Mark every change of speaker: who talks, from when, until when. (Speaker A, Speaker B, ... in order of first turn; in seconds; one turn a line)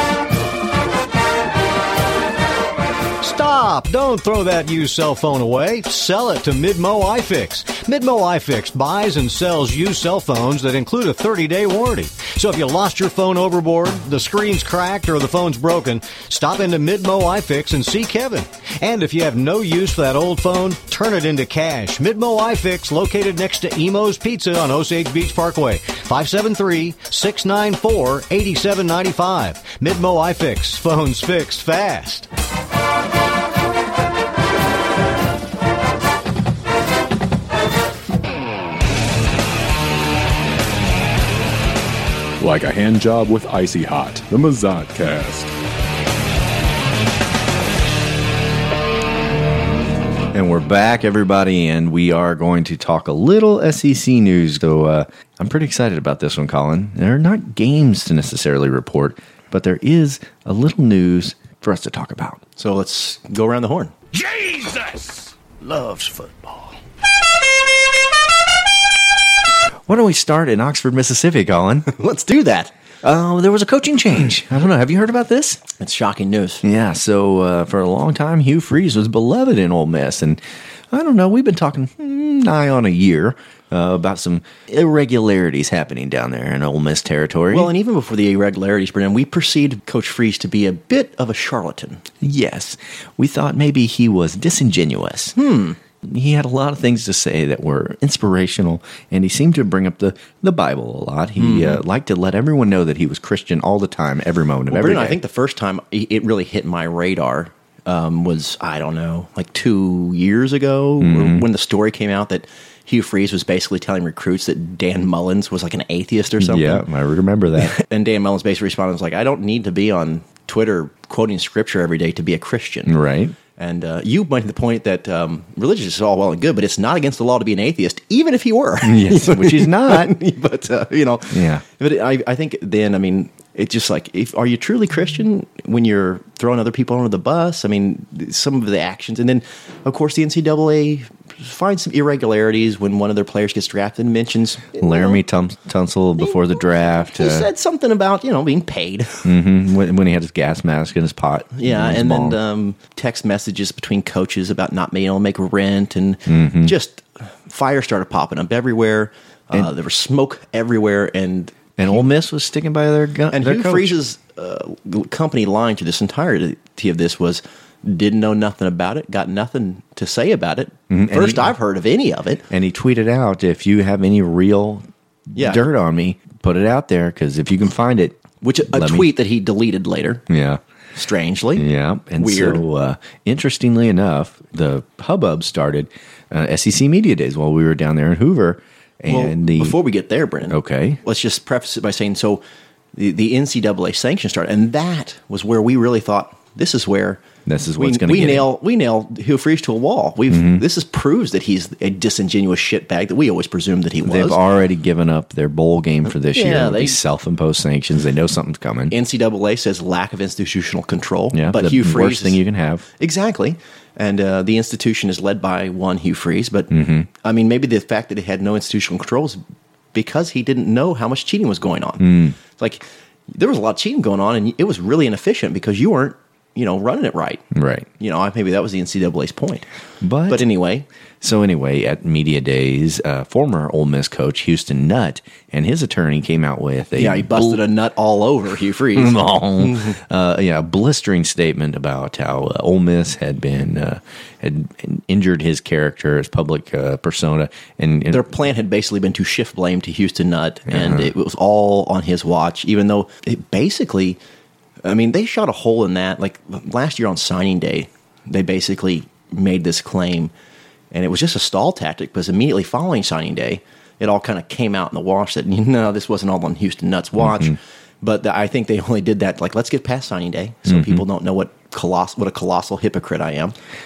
Speaker A: 3.2-32.3
Speaker B: 42.4-45.5
Speaker C: 50.3-62.4
Speaker D: 62.6-63.9
Speaker C: 64.3-65.0
Speaker C: 65.6-66.5
Speaker C: 69.9-71.9
Speaker D: 71.9-72.7
Speaker C: 73.0-75.6
Speaker D: 75.8-76.6
Speaker C: 76.6-87.7
Speaker D: 87.5-92.0
Speaker C: 92.2-95.4
Speaker D: 95.4-95.8
Speaker C: 96.0-105.2
Speaker D: 101.4-101.8
Speaker D: 104.7-116.8
Speaker C: 111.0-111.5
Speaker C: 116.4-117.7
Speaker D: 117.6-122.9
Speaker C: 122.9-123.3
Speaker D: 123.6-145.2
Speaker C: 128.8-130.2
Speaker C: 131.3-131.6
Speaker C: 144.8-147.5
Speaker D: 146.2-149.2
Speaker C: 149.2-152.4
Speaker D: 151.6-162.1
Speaker C: 156.3-156.8
Speaker C: 161.8-164.0
Speaker D: 163.3-172.4
Speaker C: 170.9-171.5
Speaker C: 172.5-174.8
Speaker D: 175.3-175.6
Speaker C: 175.4-179.1
Speaker D: 178.4-180.2
Speaker C: 180.3-180.6
Speaker D: 180.9-181.7
Speaker C: 181.6-189.8
Speaker D: 182.2-182.6
Speaker D: 189.1-192.4
Speaker C: 190.5-191.0
Speaker D: 192.9-197.2
Speaker C: 197.5-198.5
Speaker D: 197.8-204.4
Speaker C: 200.3-200.7
Speaker C: 204.0-208.9
Speaker D: 206.1-207.0
Speaker D: 208.9-212.4
Speaker C: 211.3-212.9
Speaker D: 213.0-216.7
Speaker C: 216.7-217.1
Speaker D: 217.2-219.4
Speaker D: 219.9-227.4
Speaker C: 222.0-222.4
Speaker C: 227.5-227.9
Speaker D: 228.0-229.7
Speaker C: 230.0-230.4
Speaker D: 230.3-230.9
Speaker C: 231.2-237.6
Speaker D: 237.0-240.0
Speaker C: 238.9-248.3
Speaker D: 248.1-254.2
Speaker C: 250.7-251.1
Speaker D: 254.8-260.3
Speaker D: 260.9-273.6
Speaker C: 267.2-267.6
Speaker C: 270.7-271.0